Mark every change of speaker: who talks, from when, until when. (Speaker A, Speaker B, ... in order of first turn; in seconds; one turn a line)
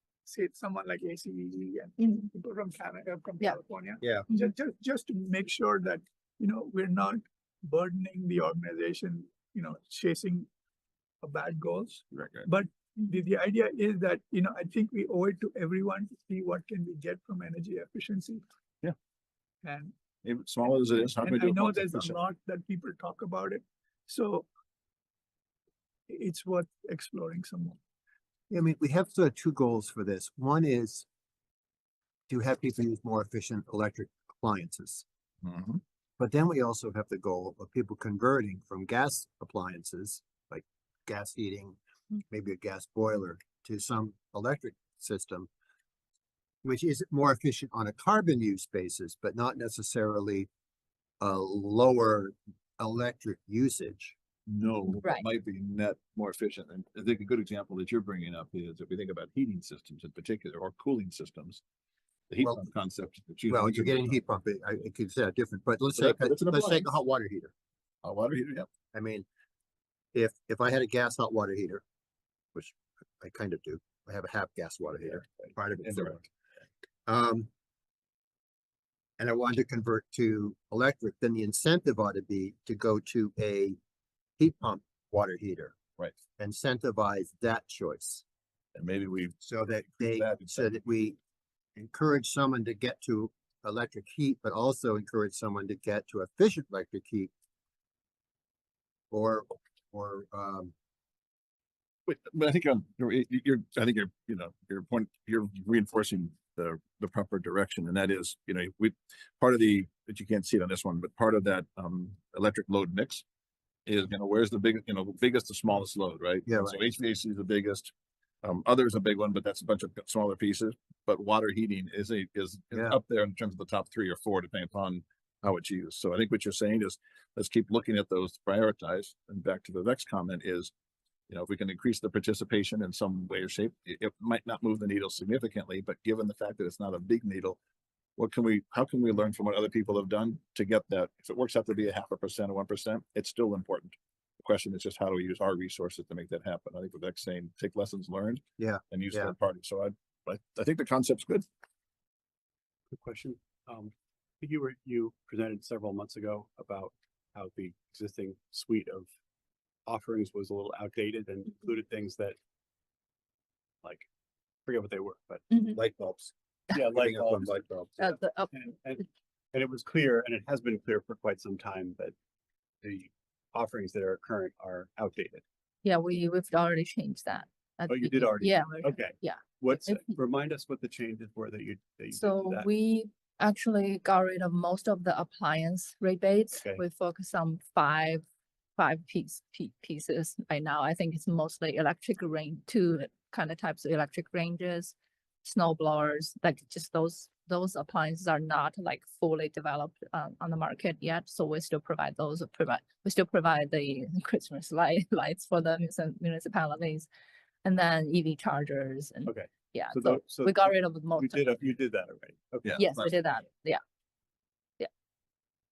Speaker A: 0.3-10.5
Speaker B: 2.0-2.3
Speaker C: 4.0-4.3
Speaker A: 11.2-18.4
Speaker D: 12.2-12.4
Speaker A: 19.6-19.9
Speaker D: 20.2-22.2
Speaker A: 21.1-24.5
Speaker A: 26.1-27.8
Speaker C: 28.5-31.1
Speaker C: 32.3-35.0
Speaker D: 35.4-35.8
Speaker C: 36.2-45.5
Speaker C: 46.6-50.5
Speaker C: 51.2-54.2
Speaker D: 54.5-61.6
Speaker D: 62.3-64.2
Speaker C: 63.5-67.5
Speaker D: 66.0-66.8
Speaker D: 68.0-68.7
Speaker C: 68.9-69.2
Speaker C: 70.1-71.8
Speaker C: 72.5-76.3
Speaker C: 77.1-77.5
Speaker C: 79.2-83.8
Speaker C: 84.4-85.8
Speaker C: 86.4-88.2
Speaker D: 88.8-90.7
Speaker C: 89.4-91.2
Speaker C: 91.8-97.3
Speaker C: 99.1-100.7
Speaker D: 102.1-113.2
Speaker D: 113.9-117.9
Speaker C: 116.5-116.8
Speaker D: 118.4-130.7
Speaker D: 131.3-137.6
Speaker D: 138.2-151.5
Speaker C: 148.6-149.3
Speaker E: 152.9-159.1
Speaker E: 159.9-162.4
Speaker E: 164.7-165.6
Speaker B: 165.5-165.8
Speaker C: 165.7-167.9
Speaker E: 166.7-172.1
Speaker B: 168.0-168.5
Speaker E: 172.8-175.4
Speaker B: 175.8-180.1
Speaker E: 177.9-182.7
Speaker B: 182.1-188.2
Speaker B: 188.8-207.1
Speaker B: 207.6-211.6
Speaker E: 209.3-212.8
Speaker B: 212.8-213.8